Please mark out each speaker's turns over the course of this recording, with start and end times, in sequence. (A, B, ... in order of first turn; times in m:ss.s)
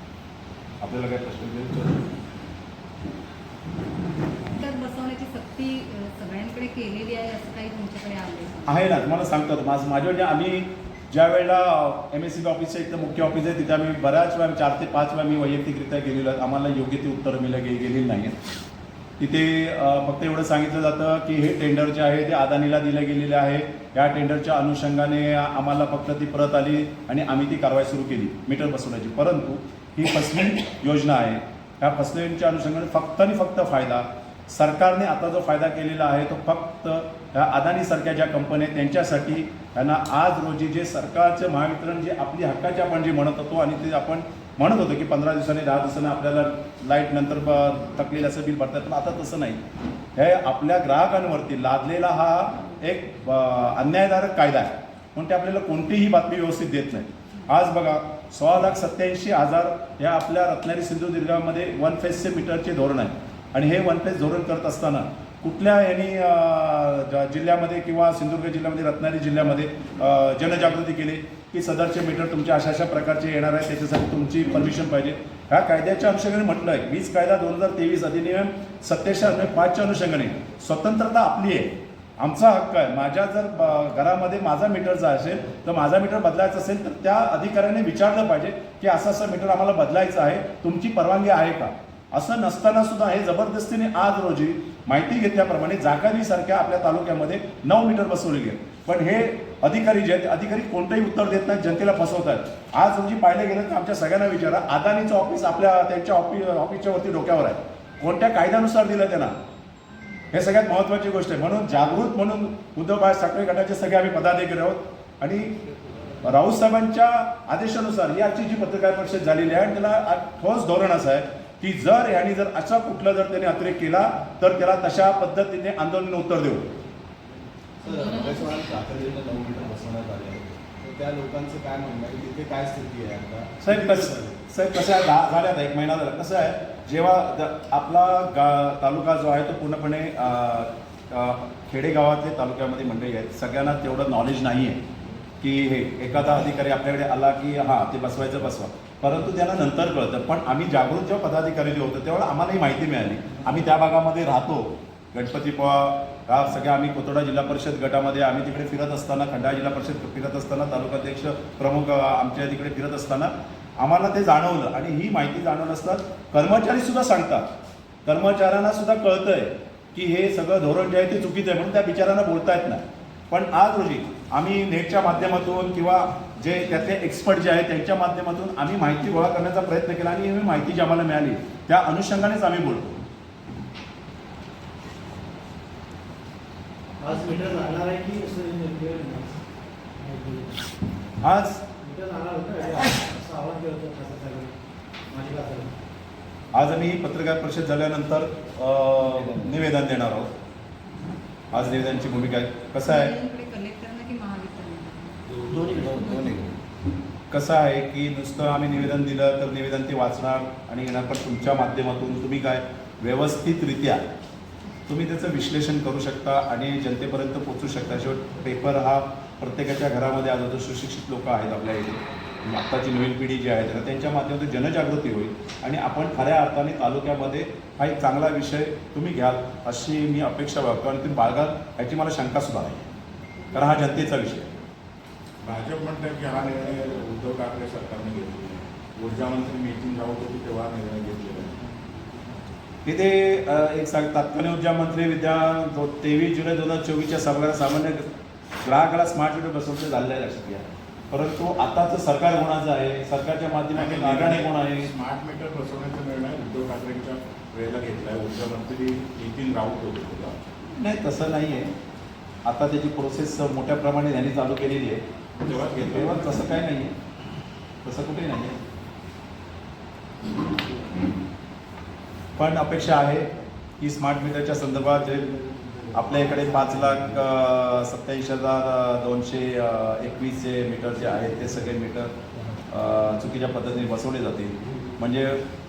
0:00.8-0:02.1 A
0:04.5-0:08.8 B
0:08.7-0:18.3 A
0:19.2-0:49.6 A
0:50.2-1:49.4 A
1:50.3-1:55.5 A
1:56.2-2:06.7 A
2:07.8-2:14.3 C
2:13.6-2:24.8 A
2:25.4-2:47.5 A
2:48.0-3:03.0 A
3:07.0-3:09.4 D
3:10.0-3:10.6 D
3:11.2-3:11.6 A
3:11.8-3:14.6 D
3:15.1-3:15.7 D
3:16.5-3:20.3 A
3:19.1-3:19.5 C
3:21.5-3:23.1 A
3:22.8-3:26.4 B
3:25.6-3:26.5 C
3:27.3-3:34.0 A
3:34.9-3:52.9 A
3:53.5-3:54.5 A
3:55.4-4:01.7 E
4:02.8-4:08.0 A
4:08.6-4:14.9 A
4:13.7-4:20.4 E
4:20.7-4:21.7 A
4:22.4-4:25.0 A
4:25.4-4:26.4 E
4:25.7-4:26.9 A
4:27.8-4:28.6 A
4:32.4-4:33.3 A
4:33.8-4:35.3 A
4:35.4-4:36.0 C
4:35.9-4:42.1 A
4:42.7-4:45.4 A